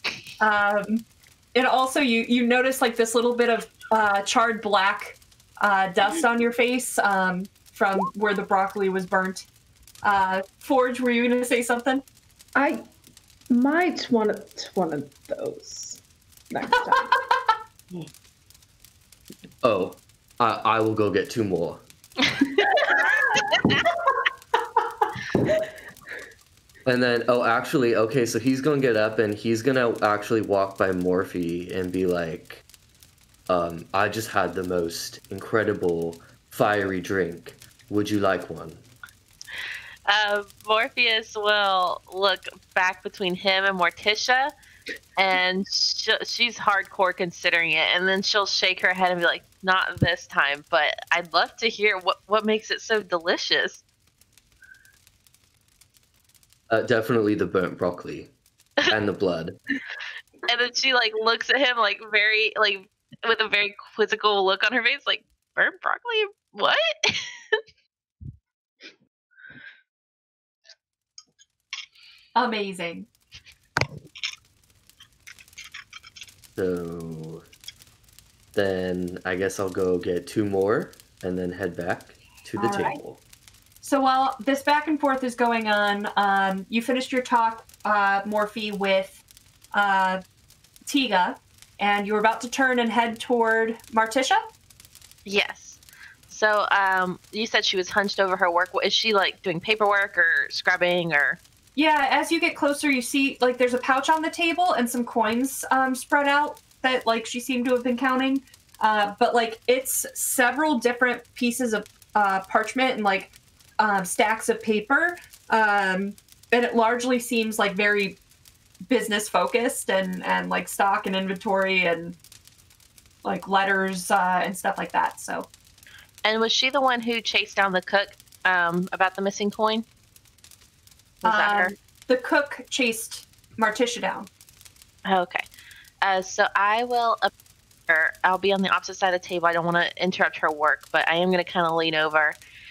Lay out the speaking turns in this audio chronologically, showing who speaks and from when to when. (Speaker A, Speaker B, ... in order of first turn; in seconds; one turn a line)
Speaker A: 0.4-9.5
Speaker A: 10.0-12.0
Speaker B: 12.6-12.8
Speaker B: 13.5-17.1
Speaker A: 16.9-17.2
Speaker C: 19.6-21.9
Speaker C: 26.9-32.6
Speaker C: 33.5-38.9
Speaker D: 40.1-44.5
Speaker D: 45.2-53.8
Speaker C: 56.7-58.3
Speaker C: 58.9-59.6
Speaker D: 60.5-67.6
Speaker A: 72.3-73.1
Speaker C: 76.6-77.5
Speaker C: 78.5-83.2
Speaker A: 82.6-83.0
Speaker A: 83.8-89.2
Speaker A: 89.7-90.2
Speaker A: 90.9-94.4
Speaker D: 95.2-101.4
Speaker A: 101.8-118.2
Speaker A: 118.9-122.2
Speaker A: 123.2-125.5
Speaker D: 126.2-129.9
Speaker D: 131.2-131.7
Speaker A: 131.2-134.3
Speaker D: 135.1-135.5
Speaker D: 136.0-137.3
Speaker D: 137.9-142.4